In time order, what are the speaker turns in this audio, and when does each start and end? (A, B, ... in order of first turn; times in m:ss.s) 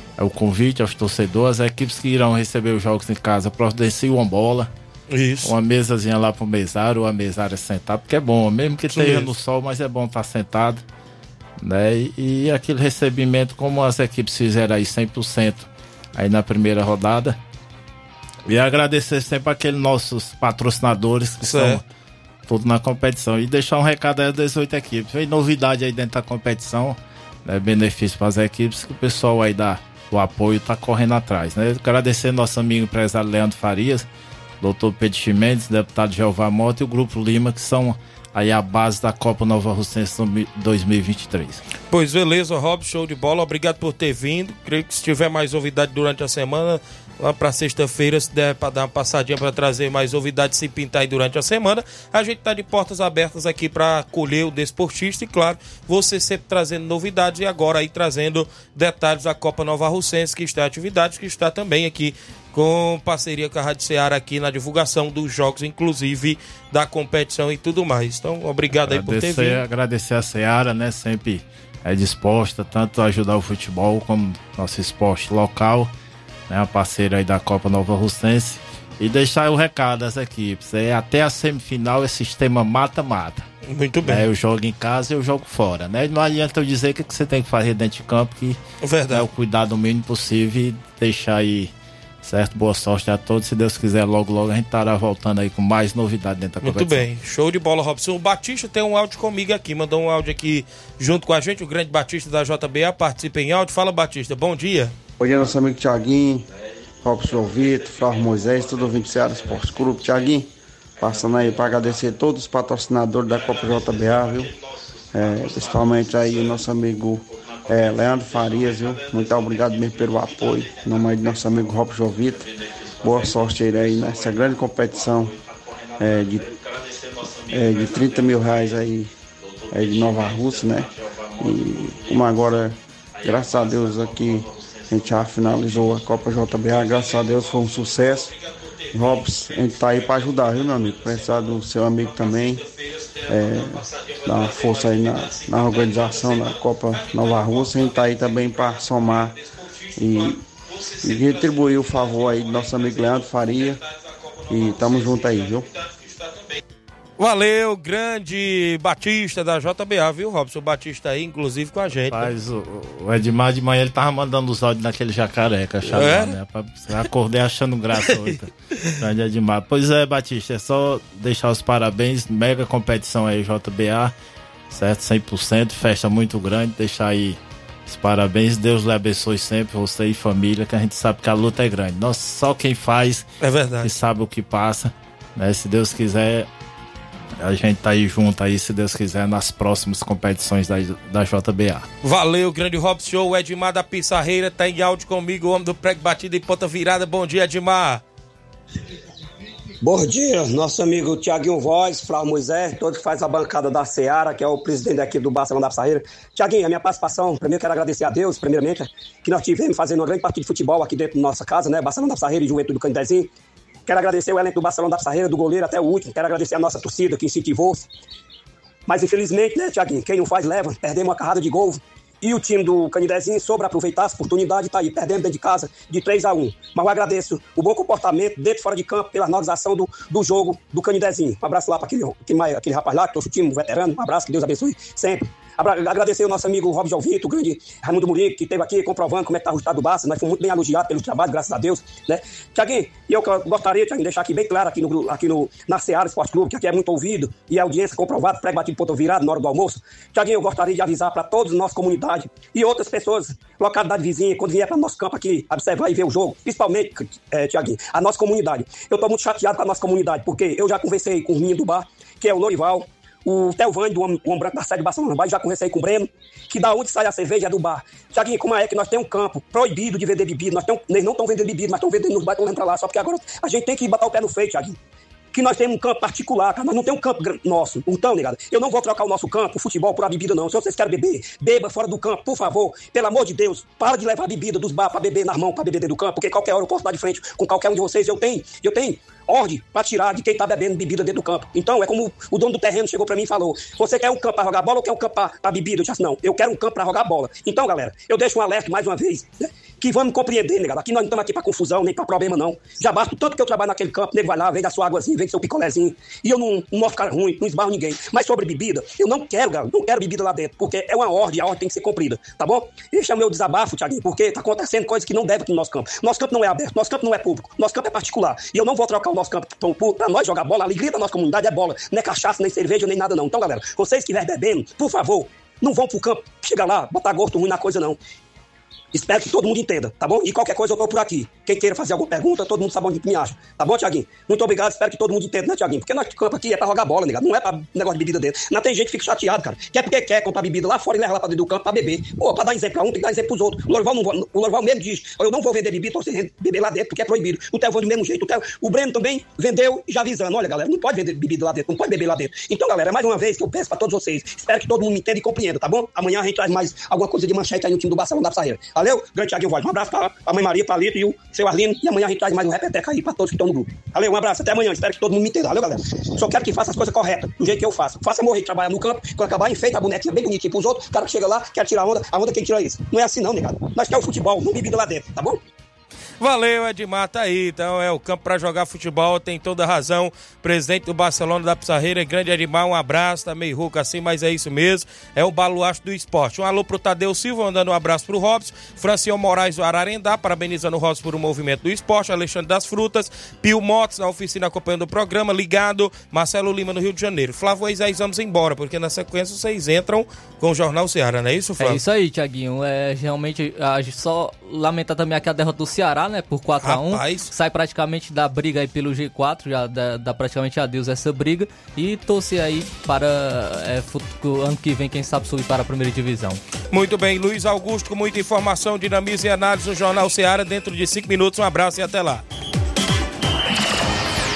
0:00.2-0:04.7 A
0:05.1-0:05.5 B
0:05.4-0:10.8 A
0:08.9-0:09.3 B
0:11.6-0:17.4 A
0:18.5-0:21.8 A
0:21.4-0:21.8 B
0:22.5-0:34.1 A
0:34.6-0:41.6 A
0:41.9-1:09.6 B
1:08.8-1:15.9 A
1:16.5-1:23.5 A
1:23.7-1:24.2 B
1:24.0-1:37.1 A
1:28.8-1:29.3 B
1:36.6-1:45.0 B
1:45.2-1:46.5 C
1:47.0-1:54.5 C
1:55.1-2:02.5 C
2:03.0-2:05.4 C
2:06.0-2:06.6 C
2:07.5-2:09.1 C
2:09.7-2:18.3 C
2:16.7-2:19.5 B
2:18.9-2:22.6 C
2:20.2-2:21.0 B
2:22.3-2:33.8 B
2:23.3-2:29.4 C
2:30.0-2:30.4 C
2:31.0-2:33.8 C
2:34.5-2:36.6 B
2:34.5-2:35.7 C
2:37.2-2:42.3 B
2:42.0-2:54.1 A
2:45.8-2:46.4 B
2:54.7-3:03.3 A
3:03.4-3:03.9 B
3:03.8-3:06.5 A
3:07.4-3:11.9 A
3:12.0-3:18.0 B
3:19.8-3:33.3 D
3:33.9-3:37.9 D
3:38.9-4:34.8 D
4:35.3-5:28.0 D
5:28.9-6:15.4 D
6:16.2-6:41.8 B
6:41.6-6:56.4 E
6:46.6-6:47.3 B
6:56.7-7:02.2 B